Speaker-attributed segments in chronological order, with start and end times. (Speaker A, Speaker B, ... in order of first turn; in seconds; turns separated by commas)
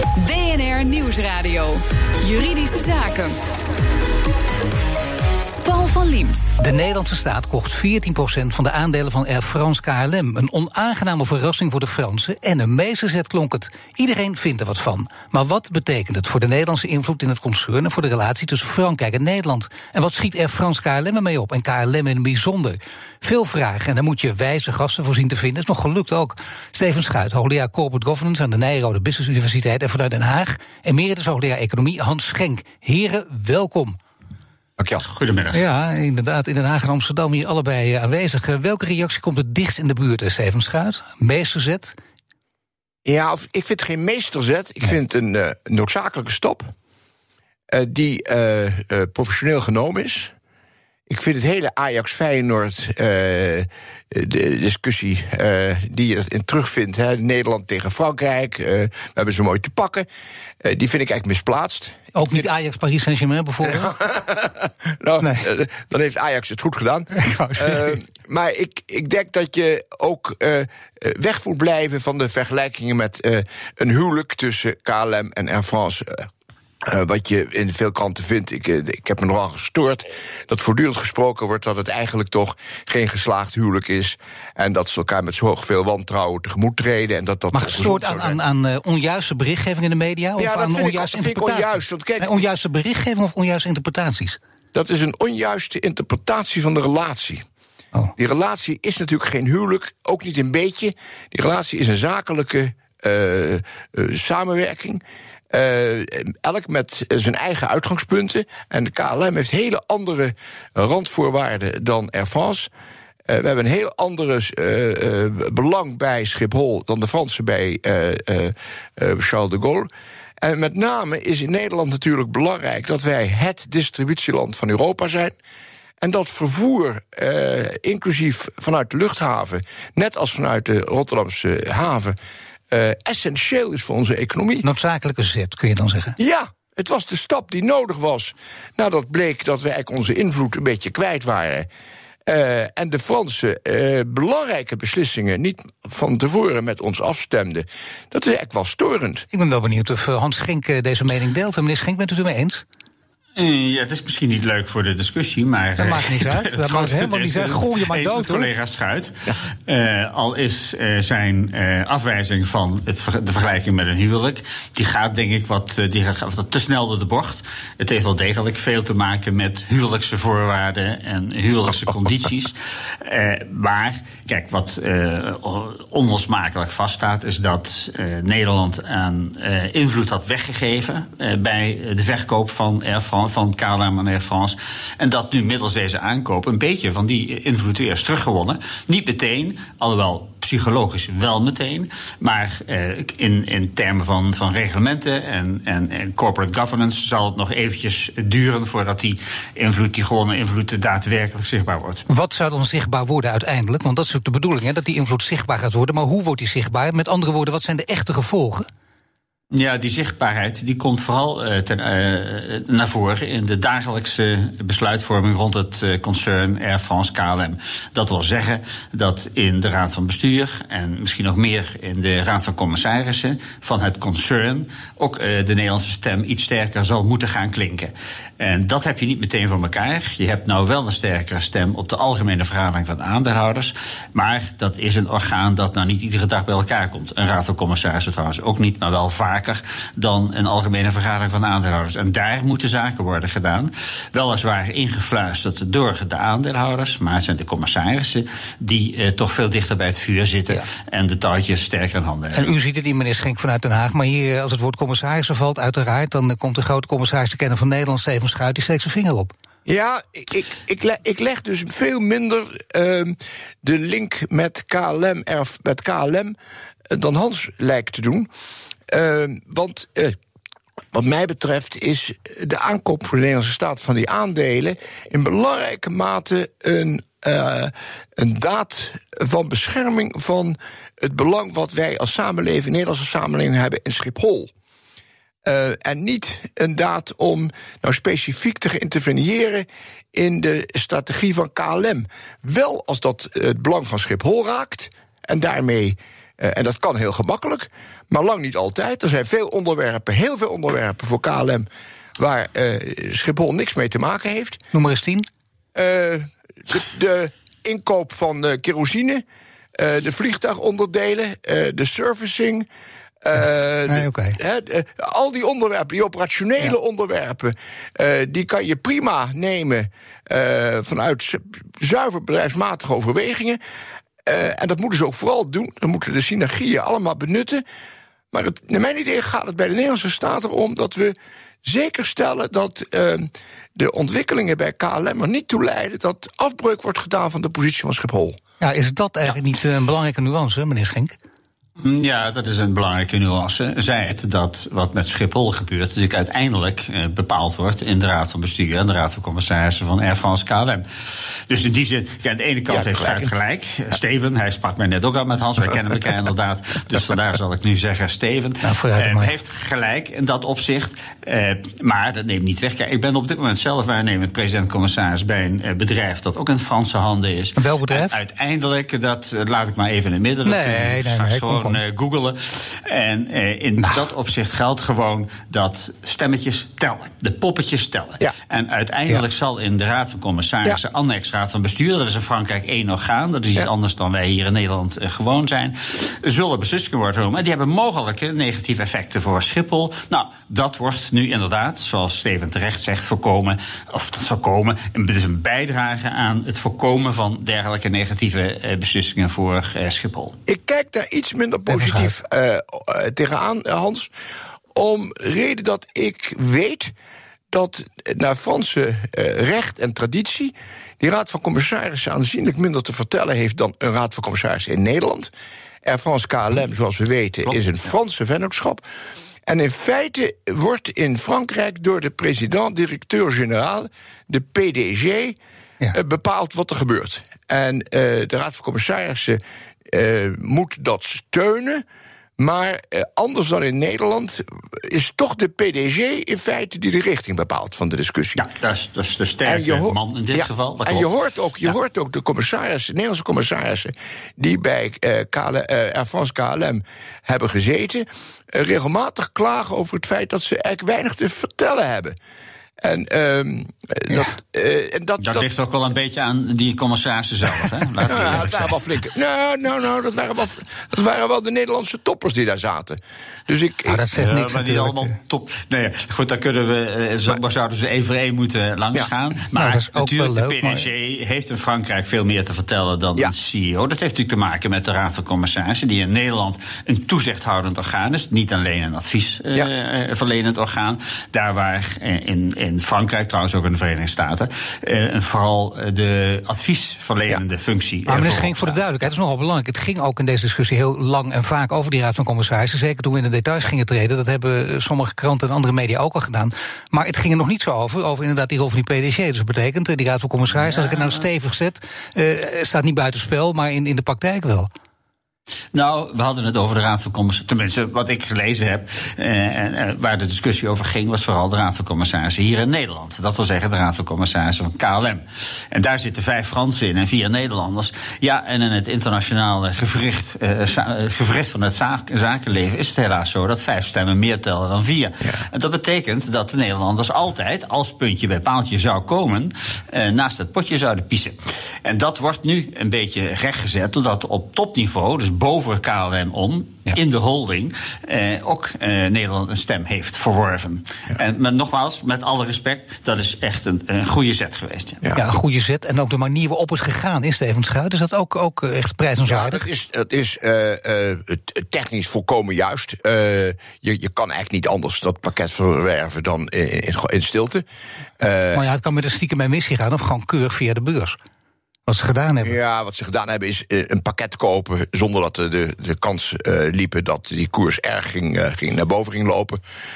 Speaker A: 0.2-3.4, Speaker A: 5.6-6.5, Speaker B: 6.6-34.0, Speaker C: 34.8-35.0, Speaker D: 35.0-35.6, Speaker B: 35.5-42.0, Speaker C: 43.0-46.7, Speaker C: 47.7-50.3, Speaker C: 51.1-60.1, Speaker C: 60.6-62.4, Speaker B: 62.1-63.9, Speaker C: 63.6-76.3, Speaker B: 67.1-68.0, Speaker C: 76.8-88.4, Speaker B: 87.5-94.4, Speaker C: 90.4-92.3, Speaker C: 94.7-97.4, Speaker C: 98.2-112.7, Speaker C: 113.3-119.9, Speaker C: 120.4-125.3, Speaker C: 126.0-132.2, Speaker C: 132.7-134.6, Speaker B: 134.6-136.2, Speaker C: 136.2-141.7, Speaker C: 142.2-149.2, Speaker B: 149.3-152.6, Speaker D: 153.3-202.0, Speaker B: 155.8-158.5, Speaker B: 202.1-208.7, Speaker D: 209.5-252.4, Speaker B: 252.3-259.3, Speaker C: 259.6-266.3, Speaker C: 266.9-268.3, Speaker C: 268.9-270.1, Speaker C: 270.9-284.5, Speaker C: 285.4-301.7, Speaker C: 302.2-304.6, Speaker B: 304.7-305.2, Speaker C: 305.7-309.2, Speaker C: 309.8-312.6, Speaker C: 313.2-323.6, Speaker B: 313.9-314.4, Speaker C: 324.2-327.6, Speaker C: 328.3-338.4, Speaker B: 338.6-341.1, Speaker D: 341.8-350.9, Speaker D: 351.5-400.4, Speaker C: 352.7-353.3, Speaker B: 358.6-359.3, Speaker B: 367.6-368.2, Speaker B: 370.4-371.8, Speaker C: 400.5-404.1, Speaker B: 401.7-402.1, Speaker C: 404.7-406.9, Speaker C: 407.5-415.3, Speaker C: 415.8-418.8, Speaker C: 419.5-425.4, Speaker C: 425.9-431.8, Speaker C: 432.4-438.4, Speaker D: 438.4-441.1, Speaker C: 439.4-452.1, Speaker C: 452.8-455.5, Speaker D: 455.2-458.8, Speaker C: 458.0-464.0, Speaker B: 463.9-465.1, Speaker D: 464.1-488.8, Speaker B: 469.5-470.9, Speaker B: 488.1-504.7, Speaker D: 500.6-501.2, Speaker D: 505.7-545.0, Speaker B: 545.1-549.6, Speaker C: 549.3-557.6, Speaker C: 558.2-558.6, Speaker B: 558.5-561.2, Speaker B: 561.9-562.5, Speaker C: 562.4-569.6